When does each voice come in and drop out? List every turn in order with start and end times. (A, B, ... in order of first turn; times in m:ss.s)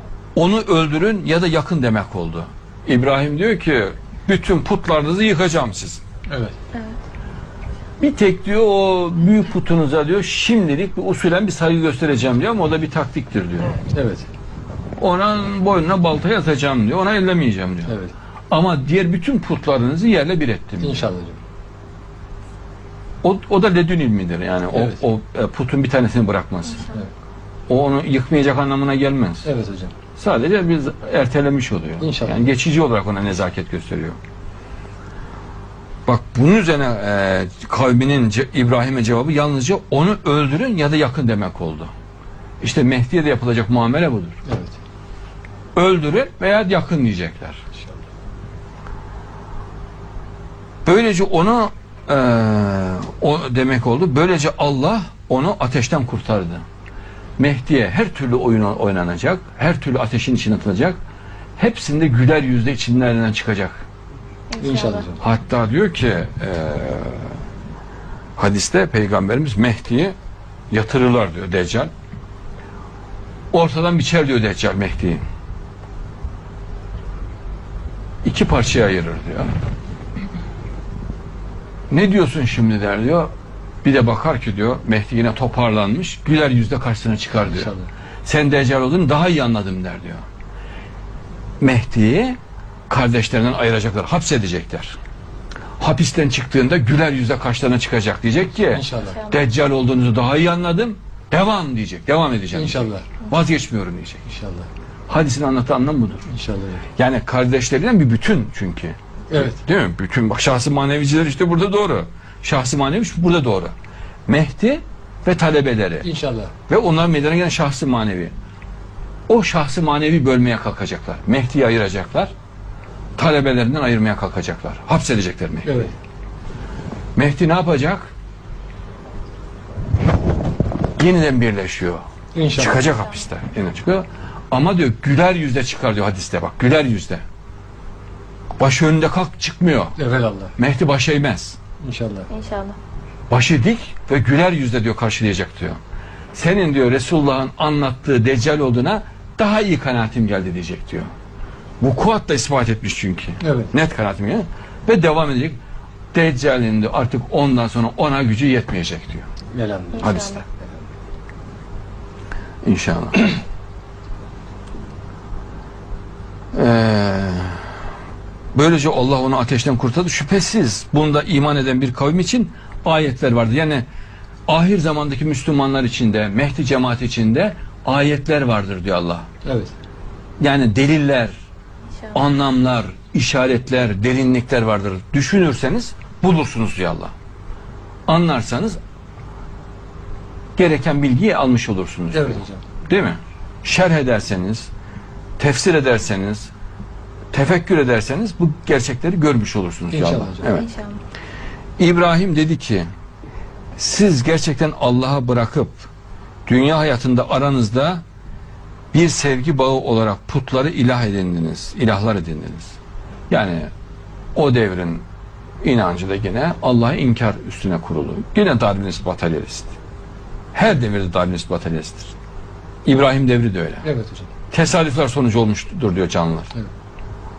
0:00.4-0:06.0 A
0:06.3-0:06.6 B
0:08.0-0:13.8 A
0:13.9-0:14.3 B
0:15.0-0:17.9 A
0:17.9-0:18.1 B
0:18.5-0:21.0 A
0:20.8-0:21.4 B
0:23.2-0:26.9 A
0:24.7-0:25.0 B
0:27.7-0:29.5 A
0:29.4-0:30.0 B
0:30.2-0:34.2 A
0:32.0-0:32.5 B
0:36.0-0:41.9 A
0:42.6-0:44.4 A
0:44.4-0:44.8 B
0:45.7-0:47.6 A
0:47.8-0:48.0 B
0:50.8-0:56.6 A
0:57.4-1:01.0 A
1:01.6-1:03.8 A
1:04.5-1:05.1 C
1:04.6-1:05.2 B
1:05.2-1:07.3 A
1:08.4-1:10.1 A
1:10.7-1:11.9 A
1:13.5-1:15.2 A
1:18.2-1:19.6 A
1:21.9-1:23.3 A
1:23.8-1:27.7 A
1:27.4-1:27.9 B
1:28.2-1:30.2 A
1:31.6-1:32.4 A
1:32.9-1:35.0 A
1:35.8-1:44.2 A
1:38.7-1:39.2 B
1:42.5-1:43.1 B
1:44.3-1:44.7 B
1:45.1-1:46.3 A
1:46.3-1:46.8 B
1:47.0-1:53.7 A
1:49.3-1:49.6 B
1:54.3-1:56.1 A
1:56.0-1:56.5 B
1:56.7-1:58.3 A
1:59.3-2:02.3 A
2:03.2-2:05.9 A
2:05.6-2:05.9 B
2:07.2-2:08.1 A
2:11.0-2:17.2 A
2:12.3-2:12.9 B
2:18.6-2:20.0 A
2:20.0-2:20.5 B
2:20.6-2:21.6 A
2:21.8-2:22.3 B
2:22.3-2:22.8 C
2:23.3-2:25.8 A
2:26.3-2:31.1 A
2:31.8-2:35.6 A
2:33.4-2:33.7 B
2:36.1-2:39.3 A
2:39.5-2:40.2 B
2:39.9-2:40.4 C
2:40.0-2:40.4 A
2:42.6-2:43.3 A
2:46.5-2:47.6 A
2:48.5-2:53.9 A
2:54.5-2:59.3 A
2:59.4-2:59.7 B
3:00.4-3:01.4 A
3:02.1-3:07.1 A
3:08.1-3:08.8 A
3:10.6-3:14.7 A
3:12.1-3:12.6 B
3:15.4-3:16.5 A
3:17.3-3:20.7 A
3:19.9-3:20.5 B
3:20.5-3:21.0 C
3:21.8-3:22.9 A
3:23.8-3:25.9 A
3:26.5-3:28.0 A
3:28.9-3:32.8 A
3:33.3-3:33.7 A
3:34.4-3:35.0 A
3:35.6-3:39.8 A
3:40.5-3:42.2 A
3:42.8-3:43.9 A
3:43.8-3:44.3 B
3:44.5-3:46.5 A